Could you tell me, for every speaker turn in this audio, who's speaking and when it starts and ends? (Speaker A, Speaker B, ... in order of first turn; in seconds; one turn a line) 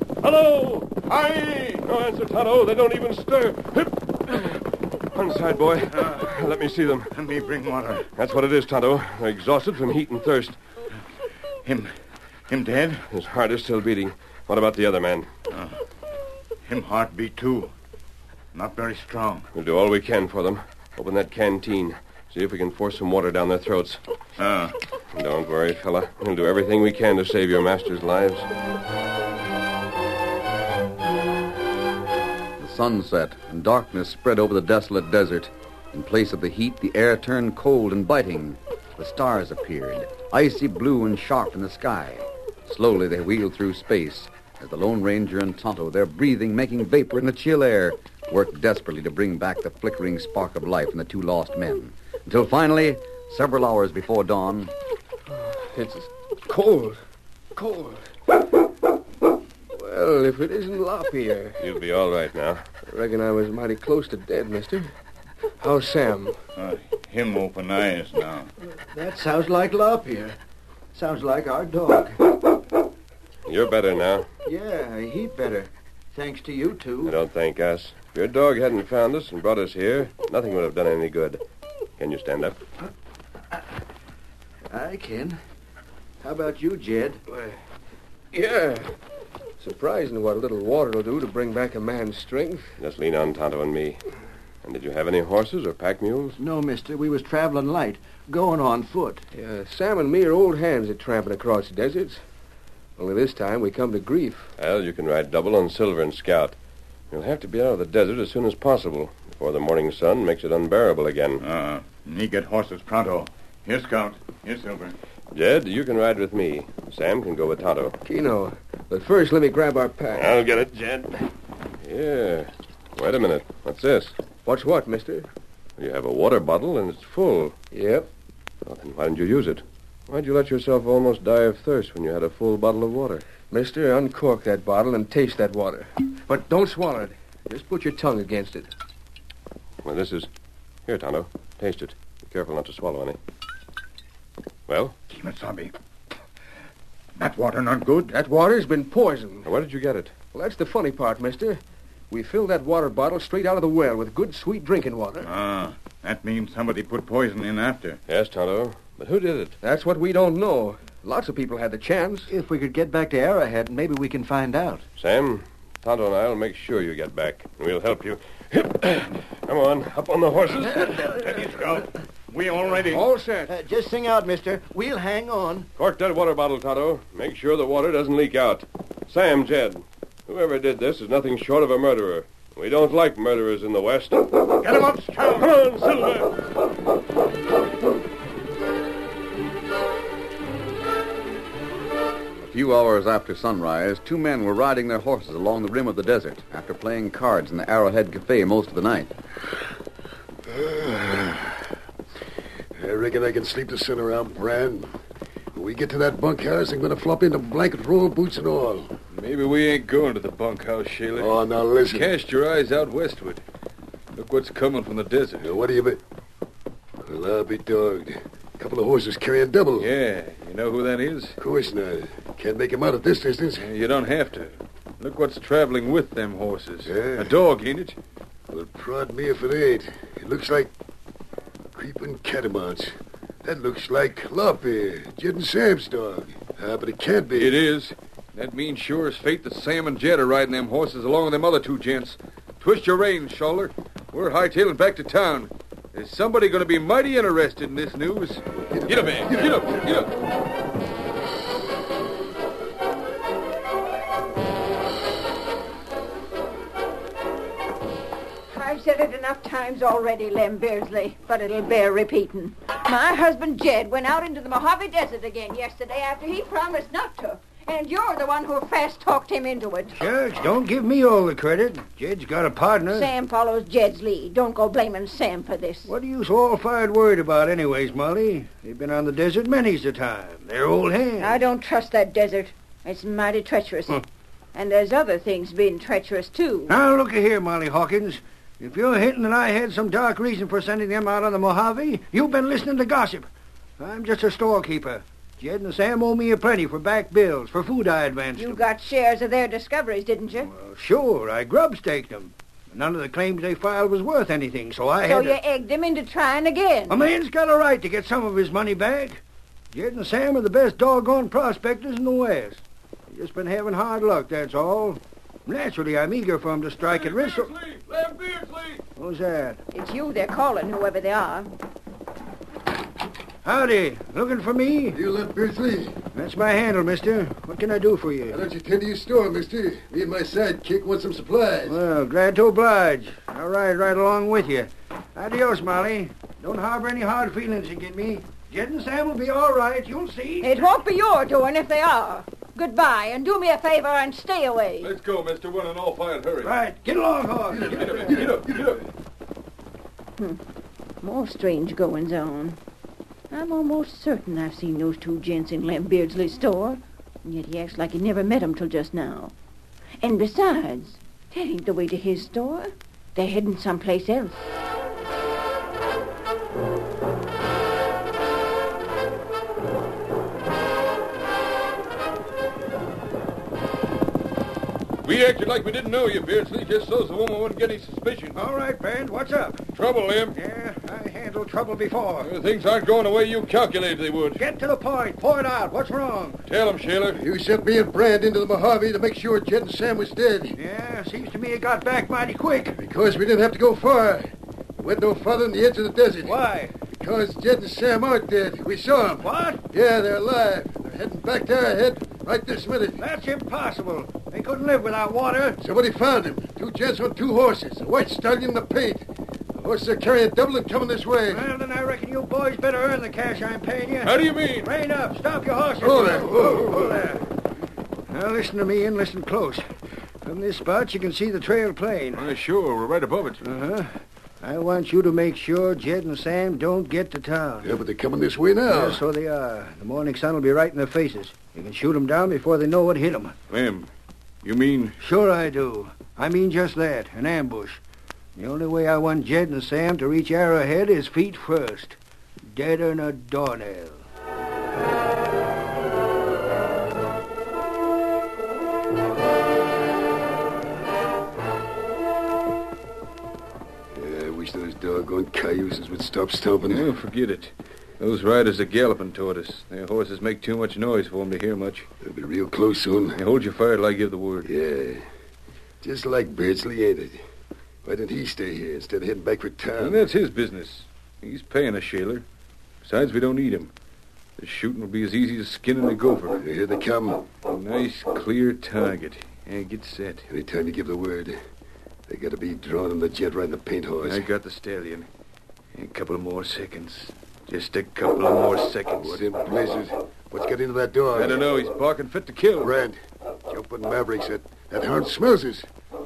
Speaker A: 0.2-1.0
Speaker B: 1.0-1.8
Speaker A: 1.8-7.1
Speaker B: 7.1-8.1
Speaker A: 8.2-10.6
Speaker B: 11.6-11.9
Speaker B: 12.5-13.0
Speaker A: 13.1-15.3
Speaker B: 16.6-17.7
Speaker B: 18.5-19.4
Speaker A: 19.5-24.0
Speaker B: 24.4-24.7
Speaker A: 25.1-28.5
Speaker C: 32.6-54.7
Speaker D: 55.3-57.0
Speaker D: 57.5-58.0
Speaker D: 59.7-61.6
Speaker A: 61.6-62.6
Speaker D: 62.9-64.9
Speaker D: 65.6-66.3
Speaker B: 66.5-68.5
Speaker E: 68.9-70.4
Speaker E: 70.9-72.2
Speaker A: 73.5-74.3
Speaker E: 74.5-77.1
Speaker A: 77.0-81.4
Speaker A: 82.0-82.6
Speaker E: 84.7-85.4
Speaker E: 86.2-87.2
Speaker D: 88.3-88.9
Speaker D: 89.6-92.8
Speaker A: 92.8-94.0
Speaker A: 94.6-96.4
Speaker E: 96.4-99.2
Speaker D: 99.3-102.2
Speaker D: 103.0-104.5
Speaker A: 104.6-106.5
Speaker A: 107.1-111.4
Speaker B: 111.4-115.0
Speaker A: 115.3-118.0
Speaker D: 118.0-120.4
Speaker A: 120.1-121.2
Speaker A: 121.8-124.2
Speaker D: 124.4-125.3
Speaker A: 125.8-127.5
Speaker D: 127.7-128.1
Speaker A: 128.7-133.2
Speaker D: 133.5-138.7
Speaker A: 139.8-140.3
Speaker A: 140.8-143.2
Speaker A: 144.7-144.9
Speaker B: 145.1-145.7
Speaker B: 147.2-148.1
Speaker D: 148.1-149.5
Speaker A: 149.4-150.1
Speaker D: 150.3-155.3
Speaker B: 155.2-158.0
Speaker A: 158.1-159.6
Speaker D: 159.6-162.3
Speaker E: 162.3-164.8
Speaker A: 165.0-171.4
Speaker B: 171.1-173.0
Speaker D: 172.9-173.5
Speaker E: 173.5-175.7
Speaker A: 175.8-184.5
Speaker B: 184.6-185.5
Speaker A: 185.3-186.4
Speaker C: 192.4-199.1
Speaker F: 200.5-201.7
Speaker F: 202.8-204.9
Speaker F: 205.5-208.9
Speaker G: 209.1-213.4
Speaker F: 211.1-212.1
Speaker G: 214.1-215.5
Speaker F: 215.4-216.0
Speaker F: 217.0-219.9
Speaker G: 219.8-221.4
Speaker F: 221.4-223.7
Speaker G: 223.6-227.9
Speaker F: 226.8-227.3
Speaker F: 228.5-230.7
Speaker F: 231.7-232.9
Speaker F: 233.4-237.5
Speaker G: 237.3-250.1
Speaker F: 248.7-249.9
Speaker H: 258.5-270.1
Speaker I: 269.9-273.1
Speaker H: 272.9-275.9
Speaker I: 275.9-281.4
Speaker H: 281.2-284.0
Speaker H: 284.5-286.8
Speaker I: 286.7-293.3
Speaker I: 293.8-298.6
Speaker H: 298.4-300.5
Speaker I: 300.5-305.4
Speaker H: 305.0-307.0
Speaker I: 306.9-309.2
Speaker I: 309.7-317.5
Speaker G: 316.8-318.8
Speaker I: 319.0-319.6
Speaker H: 319.7-321.5
Speaker I: 323.4-325.0
Speaker F: 324.9-326.0
Speaker I: 326.1-328.4
Speaker F: 328.3-331.8
Speaker I: 331.7-340.5
Speaker H: 340.4-344.9
Speaker G: 344.8-346.6
Speaker I: 346.4-348.1
Speaker F: 347.5-348.8
Speaker G: 347.6-348.8
Speaker H: 351.0-352.6
Speaker H: 353.3-359.3
Speaker H: 360.0-364.5
Speaker G: 375.0-378.4
Speaker I: 378.3-379.6
Speaker G: 379.7-380.4
Speaker I: 380.3-382.3
Speaker G: 382.2-384.4
Speaker I: 384.4-386.4
Speaker G: 386.5-387.2
Speaker F: 387.1-390.6
Speaker I: 390.6-392.8
Speaker F: 392.7-396.4
Speaker I: 396.2-396.7
Speaker F: 396.9-403.0
Speaker I: 399.2-399.6
Speaker I: 403.0-405.6
Speaker F: 405.6-411.4
Speaker I: 411.3-417.2
Speaker G: 414.0-414.7
Speaker F: 415.8-417.0
Speaker I: 418.1-419.6
Speaker I: 420.2-422.2
Speaker G: 422.1-423.4
Speaker I: 423.4-427.7
Speaker F: 427.6-429.0
Speaker I: 428.7-433.3
Speaker G: 433.5-433.9
Speaker G: 434.4-435.0
Speaker I: 435.0-437.8
Speaker I: 438.4-442.0
Speaker I: 442.5-444.0
Speaker F: 453.9-456.9
Speaker G: 456.7-461.9
Speaker F: 462.0-463.2
Speaker G: 463.1-464.5
Speaker F: 464.4-465.0
Speaker F: 465.8-467.2
Speaker F: 467.8-470.1
Speaker G: 469.8-472.2
Speaker G: 472.8-473.7
Speaker G: 474.4-476.4
Speaker F: 476.4-477.3
Speaker G: 477.4-480.2
Speaker F: 480.3-481.4
Speaker F: 482.1-484.2
Speaker G: 484.0-485.1
Speaker G: 485.7-489.2
Speaker F: 488.9-491.5
Speaker G: 491.1-492.7
Speaker F: 492.6-495.7